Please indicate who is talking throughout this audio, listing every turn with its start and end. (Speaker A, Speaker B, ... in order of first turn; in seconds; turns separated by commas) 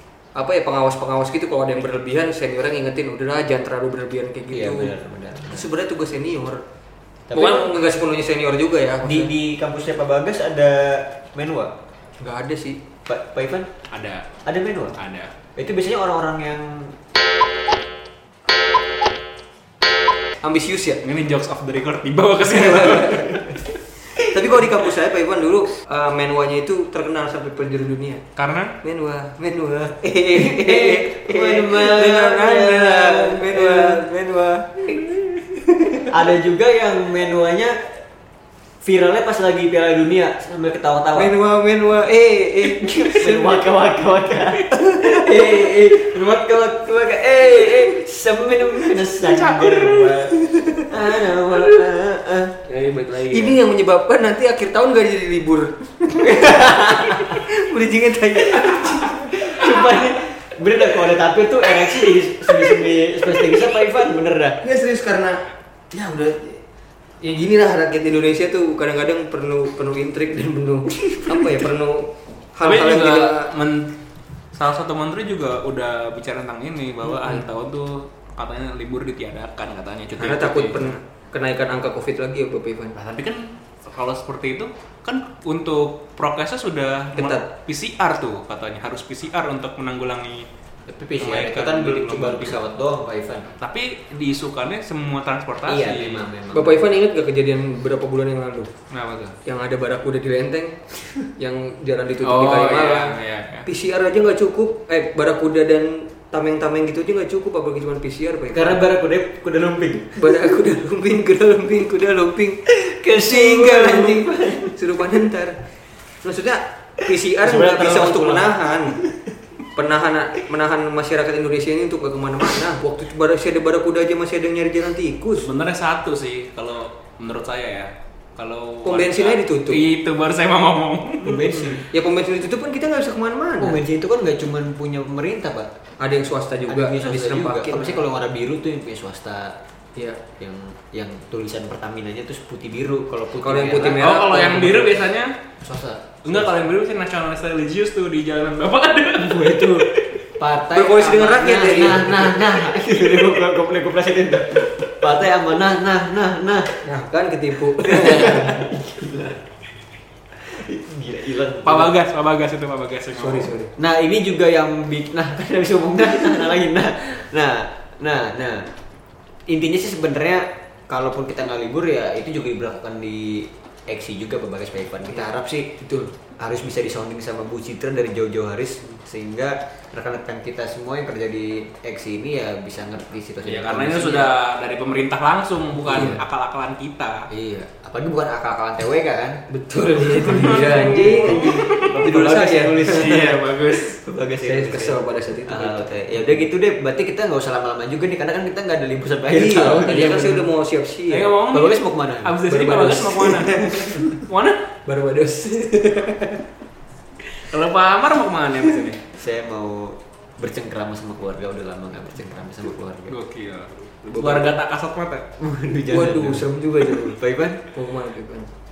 Speaker A: 0.3-4.9, Speaker B: 4.5-5.7, Speaker A: 5.5-6.6, Speaker B: 7.3-7.9, Speaker A: 7.3-9.3, Speaker B: 9.0-11.7, Speaker A: 12.2-12.8, Speaker B: 13.1-13.7, Speaker C: 13.9-14.2, Speaker B: 14.4-14.9, Speaker C: 15.0-15.3, Speaker B: 15.6-16.9, Speaker A: 20.4-21.0, Speaker C: 21.0-23.6, Speaker A: 22.4-23.4, Speaker A: 24.1-28.2, Speaker C: 28.4-28.8, Speaker A: 28.8-36.1, Speaker B: 30.3-34.0, Speaker B: 36.1-37.9, Speaker B: 38.8-41.3, Speaker A: 41.1-43.7, Speaker B: 42.6-52.6, Speaker A: 44.6-45.7, Speaker A: 49.7-51.8, Speaker C: 52.6-53.6, Speaker A: 53.2-59.9, Speaker B: 56.2-57.3, Speaker B: 58.5-64.6, Speaker A: 61.8-62.7, Speaker A: 64.6-66.6, Speaker A: 67.2-73.5, Speaker C: 72.6-73.9, Speaker C: 74.5-80.9, Speaker A: 77.1-77.4, Speaker A: 80.2-83.0, Speaker C: 82.9-90.5, Speaker A: 87.1-87.5, Speaker B: 90.9-93.5, Speaker C: 91.2-92.6, Speaker C: 93.6-96.3, Speaker B: 95.7-96.8, Speaker A: 96.5-98.7, Speaker C: 98.9-99.4, Speaker A: 99.4-100.8, Speaker A: 101.4-108.8, Speaker C: 102.2-103.6, Speaker B: 108.5-110.6, Speaker A: 110.2-115.6, Speaker B: 112.7-114.7, Speaker A: 116.2-119.0, Speaker B: 117.4-119.1, Speaker A: 119.7-125.5, Speaker C: 125.4-131.6, Speaker A: 128.8-129.9, Speaker B: 131.2-131.8, Speaker A: 131.6-133.8, Speaker B: 133.6-135.7, Speaker A: 136.0-138.0, Speaker B: 136.7-139.6, Speaker A: 139.9-140.2, Speaker B: 140.4-144.1, Speaker A: 143.4-145.0, Speaker C: 143.8-145.4, Speaker B: 145.6-146.5, Speaker C: 146.2-150.0, Speaker B: 149.2-156.8, Speaker A: 150.7-152.5, Speaker A: 156.8-158.8, Speaker B: 157.8-159.3, Speaker B: 160.4-161.9, Speaker C: 161.6-163.5, Speaker A: 163.1-163.7, Speaker B: 163.8-168.7, Speaker B: 169.5-175.8, Speaker A: 175.8-176.1, Speaker B: 176.4-184.3, Speaker C: 183.4-187.2, Speaker B: 185.8-186.2, Speaker B: 187.3-189.4, Speaker A: 189.5-193.3, Speaker C: 190.1-192.0, Speaker B: 190.3-200.5, Speaker C: 192.8-194.0, Speaker A: 194.4-196.3, Speaker A: 199.3-201.3, Speaker C: 201.1-204.6, Speaker B: 201.5-202.4, Speaker A: 202.4-204.2, Speaker A: 204.8-206.4, Speaker C: 207.3-209.0, Speaker B: 209.1-213.2, Speaker C: 213.1-215.2, Speaker A: 214.1-214.5, Speaker B: 215.4-217.6, Speaker A: 215.9-217.2, Speaker A: 217.7-218.5